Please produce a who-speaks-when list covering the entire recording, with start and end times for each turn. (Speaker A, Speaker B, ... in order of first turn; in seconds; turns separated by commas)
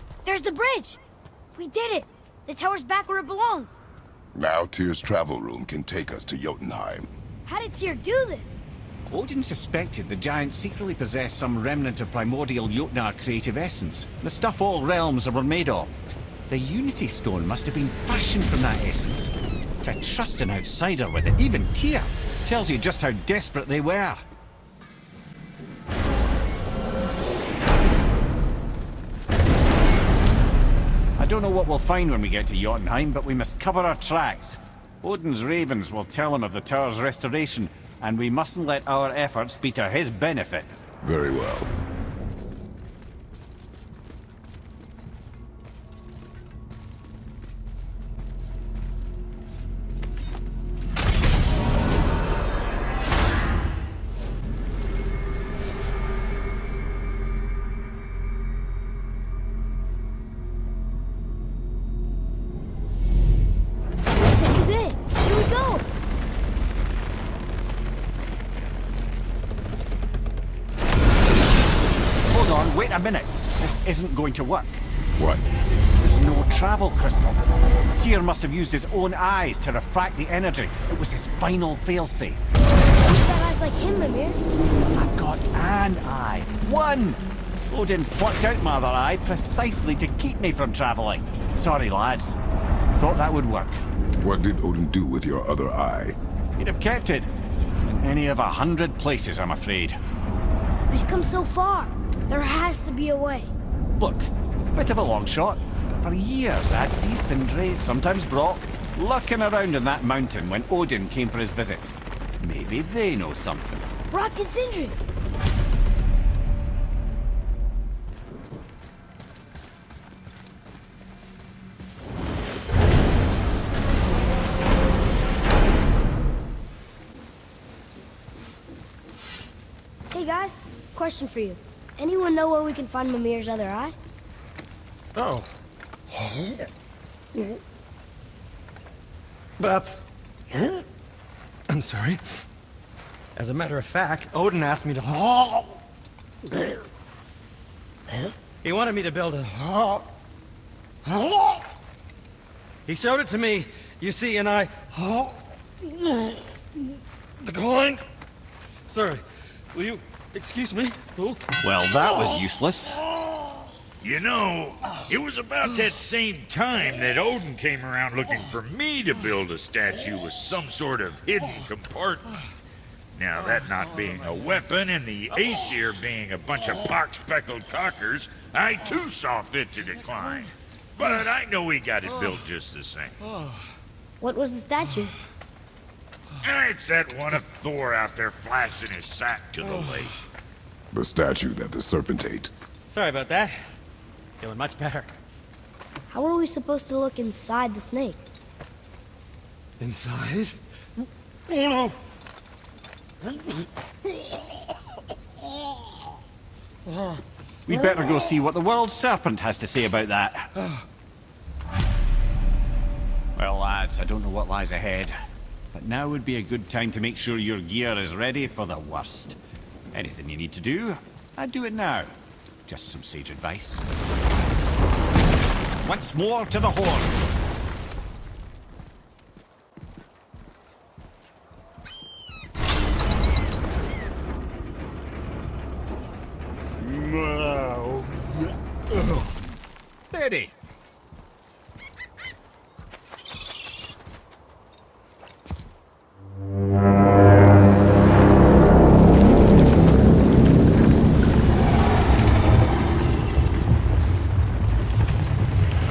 Speaker A: 0.2-1.0, Speaker A: 1.5-3.8, Speaker B: 4.3-7.1, Speaker A: 7.5-8.6, Speaker C: 9.1-16.0, Speaker C: 16.5-24.2, Speaker C: 31.2-40.7, Speaker B: 41.0-41.7, Speaker A: 64.3-65.9, Speaker C: 72.3-74.8, Speaker B: 75.2-75.4, Speaker C: 76.0-82.4, Speaker A: 83.0-84.4, Speaker C: 85.0-92.4, Speaker C: 93.0-93.8, Speaker B: 94.2-96.2, Speaker C: 96.6-97.3, Speaker C: 97.9-100.0, Speaker A: 100.9-103.5, Speaker C: 104.0-113.9, Speaker A: 114.1-115.0, Speaker A: 130.1-134.0, Speaker D: 135.2-135.5, Speaker D: 136.1-136.7, Speaker D: 139.6-140.8, Speaker D: 141.7-142.2, Speaker D: 143.4-145.8, Speaker D: 146.5-146.8, Speaker D: 148.5-150.1, Speaker D: 151.1-151.6, Speaker D: 152.9-155.4, Speaker D: 156.0-156.4, Speaker D: 157.4-158.1, Speaker D: 158.9-161.4, Speaker C: 161.6-163.0, Speaker E: 164.0-172.4, Speaker E: 173.2-183.2, Speaker A: 184.2-185.1, Speaker E: 186.4-190.1, Speaker B: 190.9-192.5, Speaker D: 192.9-193.6, Speaker D: 194.4-195.1, Speaker A: 196.1-198.2, Speaker D: 199.8-200.6, Speaker D: 201.5-202.0, Speaker C: 207.7-210.5, Speaker C: 213.4-215.2, Speaker C: 215.7-219.4, Speaker C: 219.9-222.1, Speaker C: 222.7-223.8, Speaker C: 225.8-227.2, Speaker C: 236.8-238.3, Speaker C: 238.9-239.2, Speaker C: 240.1-240.5